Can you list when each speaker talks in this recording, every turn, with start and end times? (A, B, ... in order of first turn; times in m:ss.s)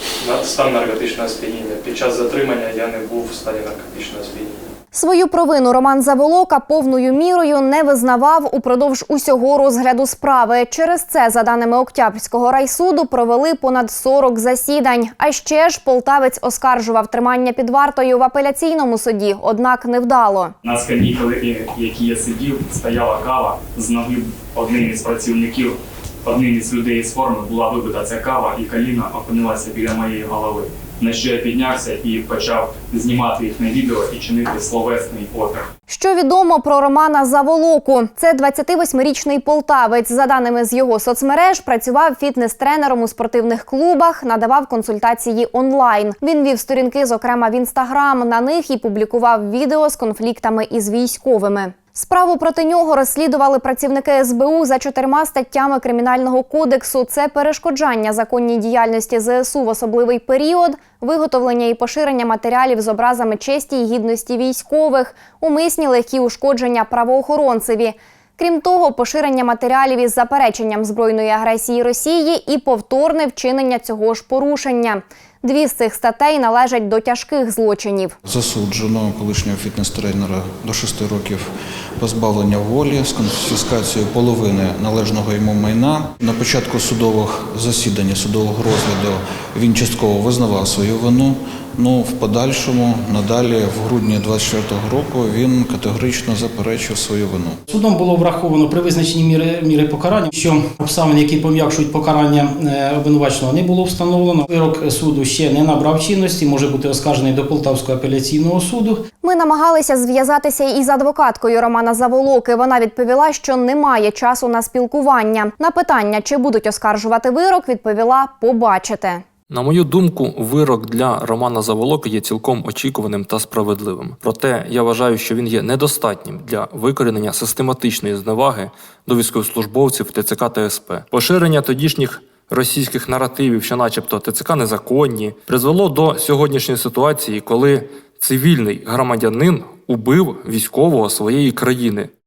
0:00.2-0:04.6 A
0:04.9-0:20.5 B
0:20.6-0:35.7 C
0:35.9-1:18.2 B
1:18.2-1:37.6 D
1:37.7-1:49.0 E
1:49.2-1:59.2 B
1:59.5-2:22.1 F